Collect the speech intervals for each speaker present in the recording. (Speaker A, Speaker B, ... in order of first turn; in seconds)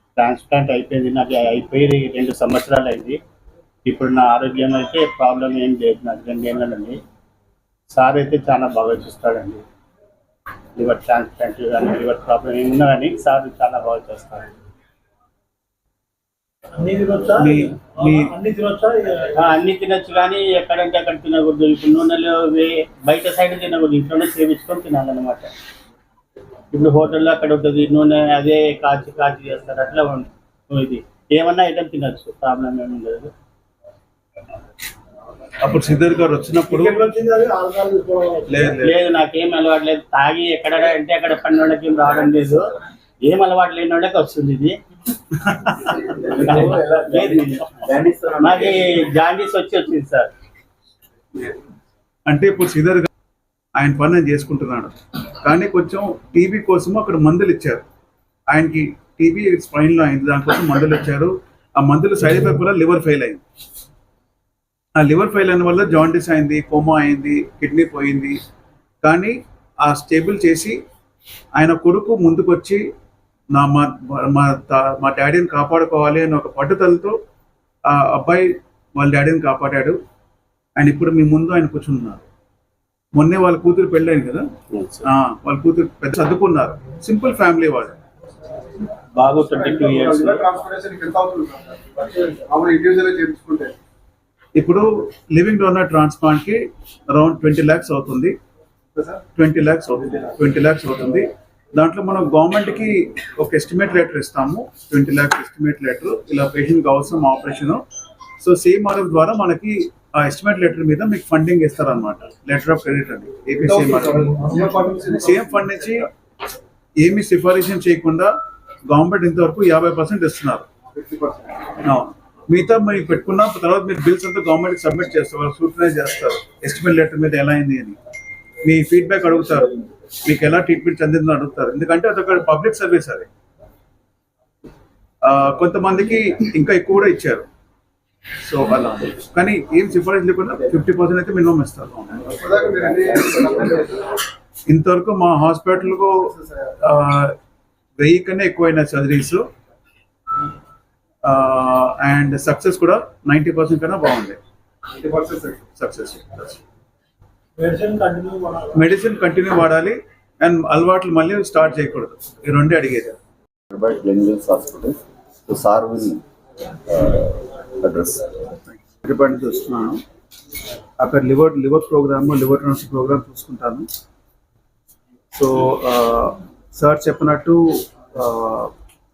Speaker A: 0.2-3.2, 3.9-7.0, 7.9-9.6, 10.8-14.5, 19.3-25.5, 26.7-33.3, 38.8-42.7, 43.2-44.8, 46.2-50.3, 89.1-90.5
Speaker B: 16.8-19.3, 36.7-38.5, 157.6-158.7
Speaker C: 17.3-18.3, 35.6-37.1, 38.5-38.9, 45.6-46.0, 52.3-53.1, 53.8-57.8, 58.5-63.4, 65.0-68.4, 69.0-70.8, 71.5-72.8, 73.5-77.2, 77.9-80.0, 80.8-82.2, 83.2-84.5, 85.0-88.0, 94.6-98.4, 99.4-107.8, 108.4-114.4, 115.2-116.1, 117.0-118.3, 118.9-120.7, 121.8-128.0, 128.6-133.3, 135.2-137.5, 138.4-142.3, 144.7-146.3, 146.8-147.3, 148.0-149.4, 151.2-154.4, 155.8-156.6, 158.7-163.2, 168.7-170.0, 171.0-173.9, 175.3-177.6, 178.1-178.7
Speaker D: 89.6-93.7, 113.6-115.4, 121.0-121.6, 142.3-144.1, 155.0-155.6
Speaker E: 163.7-166.2, 166.9-168.2